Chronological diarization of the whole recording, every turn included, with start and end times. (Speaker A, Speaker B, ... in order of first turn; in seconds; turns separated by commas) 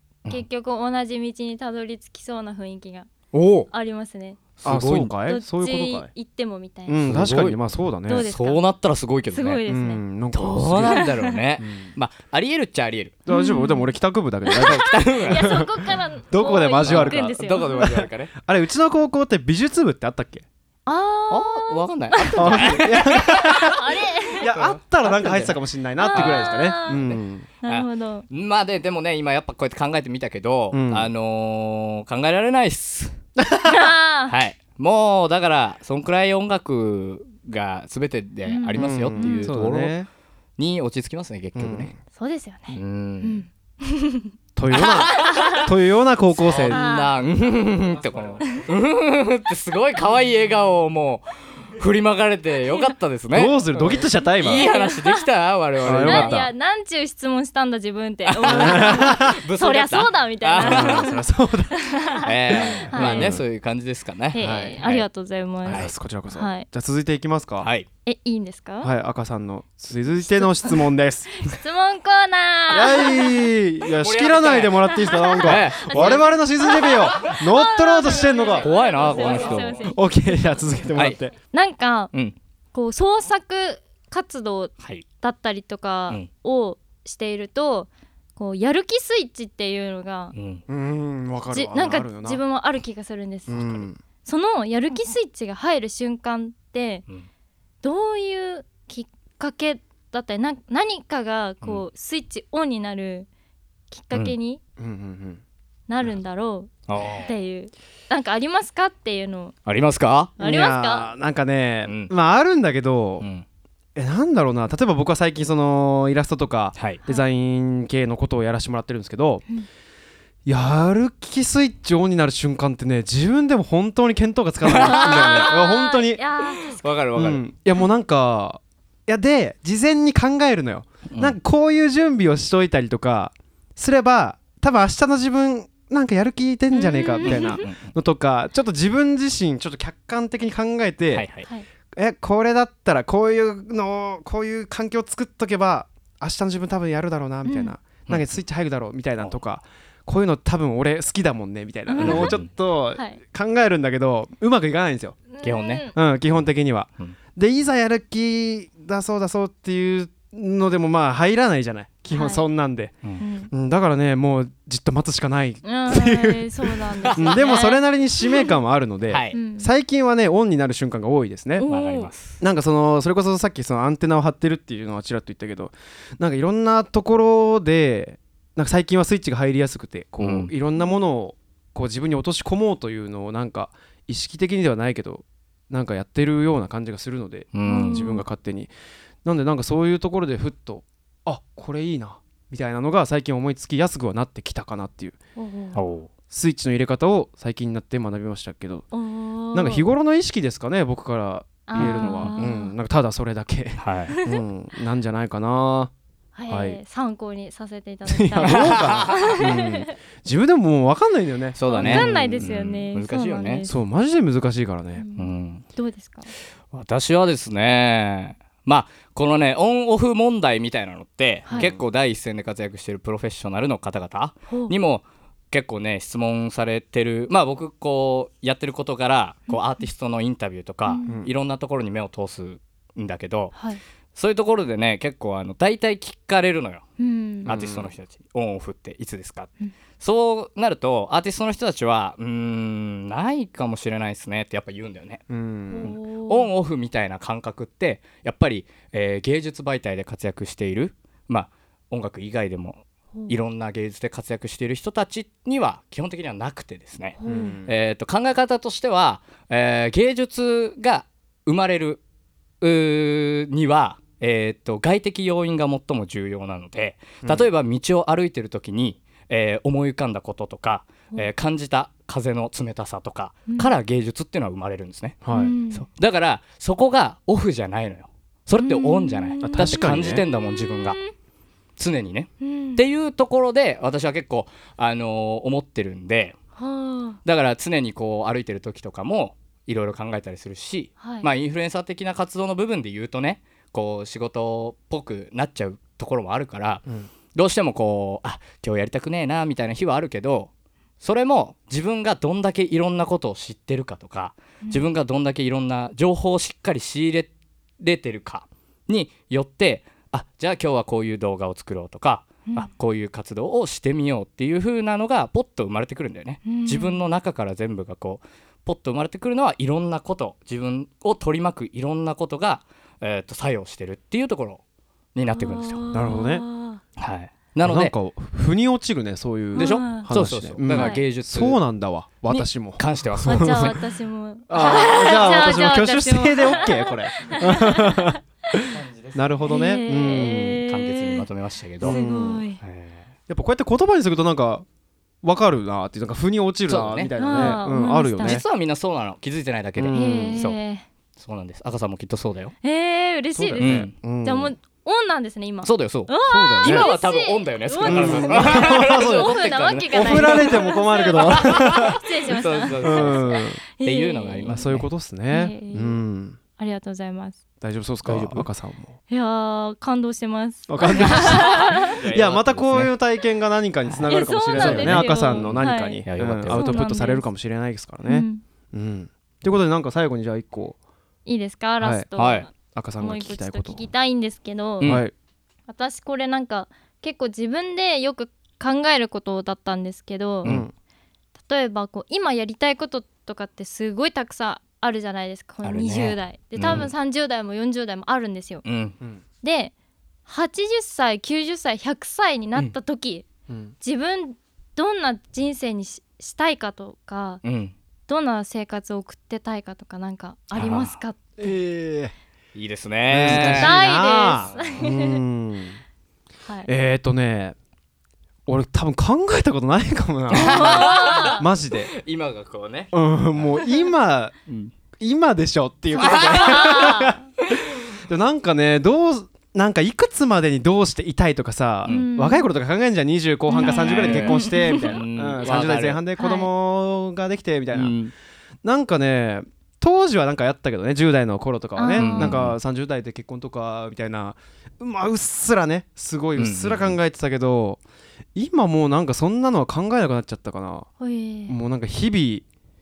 Speaker A: 0.3-3.1, Speaker B: 3.3-3.7, Speaker A: 3.7-4.5, Speaker B: 4.6-5.1, Speaker C: 4.6-6.1, Speaker A: 5.2-7.0, Speaker C: 6.9-8.3, Speaker B: 7.0-7.6, Speaker A: 8.1-8.7, Speaker B: 8.1-9.6, Speaker A: 9.3-10.0, Speaker C: 9.7-11.0, Speaker B: 10.3-13.1, Speaker A: 10.8-11.4, Speaker C: 11.6-11.9, Speaker C: 13.3-20.4, Speaker A: 13.3-13.9, Speaker A: 14.4-17.9, Speaker B: 14.7-15.6, Speaker B: 16.9-18.3, Speaker A: 20.9-24.5, Speaker B: 21.3-23.8, Speaker C: 22.4-23.8, Speaker C: 24.4-27.5, Speaker B: 24.5-25.6, Speaker A: 26.0-27.1, Speaker B: 26.1-33.1, Speaker A: 27.6-28.2, Speaker C: 30.7-31.1, Speaker C: 33.4-33.9, Speaker A: 33.6-34.3, Speaker B: 34.3-39.9, Speaker A: 38.5-39.5, Speaker C: 38.7-40.1, Speaker B: 40.6-41.9, Speaker C: 41.5-42.0, Speaker A: 42.1-44.3, Speaker B: 42.7-43.4, Speaker C: 44.6-46.8, Speaker B: 44.8-45.6, Speaker A: 45.1-45.7, Speaker B: 46.4-51.2, Speaker A: 46.7-47.1, Speaker B: 51.8-56.5, Speaker C: 53.3-54.7, Speaker A: 54.4-55.3, Speaker C: 55.8-56.5, Speaker A: 55.9-63.4, Speaker B: 58.3-61.0, Speaker C: 58.4-59.4, Speaker C: 60.6-61.8, Speaker B: 62.2-65.0, Speaker C: 62.5-63.4, Speaker A: 64.3-66.7, Speaker C: 64.4-64.8, Speaker C: 65.6-67.7, Speaker B: 67.6-67.9, Speaker A: 68.1-68.9, Speaker C: 68.8-71.3, Speaker A: 70.2-70.9, Speaker A: 71.4-73.5, Speaker C: 72.7-78.7, Speaker B: 74.0-74.8, Speaker A: 74.8-80.4, Speaker B: 75.4-76.2, Speaker B: 78.6-79.9, Speaker C: 79.9-81.3, Speaker A: 81.5-82.1, Speaker A: 82.7-90.3, Speaker B: 90.3-90.6, Speaker C: 90.7-92.4, Speaker A: 91.5-97.0, Speaker C: 93.5-94.0, Speaker A: 97.8-103.3, Speaker A: 103.9-104.6, Speaker C: 104.8-105.4, Speaker A: 105.9-109.5, Speaker B: 106.9-107.3, Speaker B: 109.7-110.3, Speaker A: 110.4-111.1, Speaker C: 110.4-113.3, Speaker C: 113.9-119.4, Speaker C: 120.5-126.2, Speaker A: 124.7-126.8, Speaker B: 124.7-125.1, Speaker B: 126.7-127.4, Speaker C: 127.2-141.3, Speaker B: 131.1-131.4, Speaker A: 136.7-137.6, Speaker B: 137.3-137.9, Speaker B: 141.1-141.5, Speaker C: 141.9-155.2, Speaker A: 147.4-147.7, Speaker A: 151.9-152.4, Speaker B: 152.0-152.5, Speaker A: 155.3-155.9, Speaker B: 155.4-155.9, Speaker C: 155.9-162.9, Speaker A: 162.1-162.4, Speaker A: 163.2-163.5, Speaker C: 163.5-171.7, Speaker A: 165.6-168.5, Speaker B: 167.1-167.4, Speaker B: 169.1-169.3, Speaker A: 169.3-169.7, Speaker A: 171.6-172.1, Speaker B: 171.7-172.3, Speaker C: 172.4-188.7, Speaker B: 180.2-180.5, Speaker B: 187.5-188.0, Speaker A: 187.7-188.2, Speaker C: 189.2-195.2, Speaker A: 195.3-195.8, Speaker B: 195.8-196.1, Speaker C: 196.3-198.8, Speaker A: 198.9-199.8, Speaker C: 199.5-205.9, Speaker A: 201.7-202.7, Speaker B: 201.8-202.4, Speaker B: 203.8-204.1, Speaker A: 204.1-204.4, Speaker A: 206.3-209.9, Speaker C: 206.5-206.8, Speaker C: 208.1-212.5, Speaker B: 208.5-209.3, Speaker B: 211.6-213.6, Speaker A: 211.7-213.8, Speaker C: 213.6-215.1, Speaker A: 215.0-216.3, Speaker B: 215.2-215.6, Speaker B: 216.7-233.5, Speaker C: 221.5-221.8, Speaker A: 224.5-224.7, Speaker A: 230.9-231.1, Speaker C: 231.1-231.3, Speaker A: 233.5-233.8, Speaker B: 234.1-236.8, Speaker A: 237.0-237.5, Speaker C: 237.4-237.9, Speaker B: 237.5-245.2, Speaker C: 245.3-246.0, Speaker A: 245.7-246.5, Speaker B: 245.9-257.1, Speaker A: 257.2-257.6, Speaker C: 257.2-257.7, Speaker B: 257.7-262.0, Speaker B: 262.6-275.1, Speaker C: 267.2-267.5, Speaker C: 275.2-275.5, Speaker A: 275.3-275.9, Speaker B: 275.7-281.0, Speaker A: 278.6-281.1, Speaker C: 279.4-280.2, Speaker B: 281.8-286.3, Speaker A: 282.4-282.8, Speaker A: 286.6-287.2, Speaker B: 287.2-296.8, Speaker A: 291.0-291.3, Speaker B: 297.4-300.5, Speaker B: 301.0-307.3, Speaker B: 307.8-324.6, Speaker A: 316.5-317.0, Speaker B: 325.1-325.8, Speaker A: 325.4-326.8, Speaker C: 325.9-326.4, Speaker B: 327.0-327.9, Speaker C: 327.6-333.8, Speaker A: 329.5-330.1, Speaker B: 329.6-331.6, Speaker A: 330.7-331.0, Speaker B: 332.8-333.5, Speaker A: 333.2-338.2, Speaker C: 334.5-340.6, Speaker B: 338.7-339.2, Speaker A: 339.5-341.3, Speaker B: 340.0-342.0, Speaker C: 341.8-342.5, Speaker A: 341.8-342.6, Speaker B: 342.6-343.0, Speaker C: 343.3-344.6, Speaker C: 345.2-348.4, Speaker B: 346.7-347.6, Speaker A: 347.2-348.4, Speaker B: 348.2-350.6, Speaker C: 349.8-350.4, Speaker A: 349.9-350.9, Speaker B: 351.2-352.5, Speaker A: 352.6-364.6, Speaker C: 353.3-354.5, Speaker B: 353.6-353.9, Speaker B: 355.6-356.1, Speaker C: 356.2-356.9, Speaker B: 356.6-360.5, Speaker C: 357.9-359.3, Speaker C: 359.9-362.0, Speaker B: 362.4-363.2, Speaker C: 362.8-363.6, Speaker B: 363.9-364.9, Speaker C: 364.5-366.4, Speaker A: 365.3-366.0, Speaker A: 366.6-367.4, Speaker C: 367.6-369.0, Speaker B: 368.1-368.4, Speaker A: 369.1-372.0, Speaker C: 370.7-380.8, Speaker B: 371.9-372.9, Speaker A: 374.1-377.2, Speaker B: 374.6-375.4, Speaker B: 376.1-376.8, Speaker A: 378.0-378.4, Speaker A: 381.2-385.0, Speaker C: 381.8-382.1, Speaker B: 382.2-382.5, Speaker C: 382.7-383.8, Speaker C: 384.8-385.1, Speaker A: 385.7-390.6, Speaker C: 390.4-390.7, Speaker A: 391.5-398.6, Speaker B: 395.6-396.9, Speaker C: 396.6-396.9, Speaker B: 398.6-398.9, Speaker A: 399.4-399.7, Speaker A: 400.3-403.2, Speaker C: 403.5-403.8, Speaker A: 403.8-407.4, Speaker B: 407.4-407.7, Speaker A: 408.1-411.2, Speaker B: 410.6-410.9, Speaker C: 411.4-412.1, Speaker B: 412.6-413.7, Speaker C: 413.1-415.8, Speaker A: 413.3-415.2, Speaker C: 416.7-417.6, Speaker C: 418.5-421.9, Speaker A: 420.3-421.5, Speaker B: 420.5-421.3, Speaker B: 422.1-422.9, Speaker C: 422.9-424.3, Speaker A: 423.6-423.9, Speaker C: 425.0-427.2, Speaker A: 425.9-427.2, Speaker C: 428.1-438.0, Speaker A: 431.9-432.5, Speaker A: 433.5-435.0, Speaker B: 433.6-434.4, Speaker B: 435.0-435.9, Speaker A: 436.1-436.5, Speaker C: 438.6-447.8, Speaker A: 441.8-442.4, Speaker B: 442.0-442.5, Speaker B: 446.4-446.8, Speaker C: 448.4-450.9, Speaker A: 451.0-451.6, Speaker C: 451.5-452.4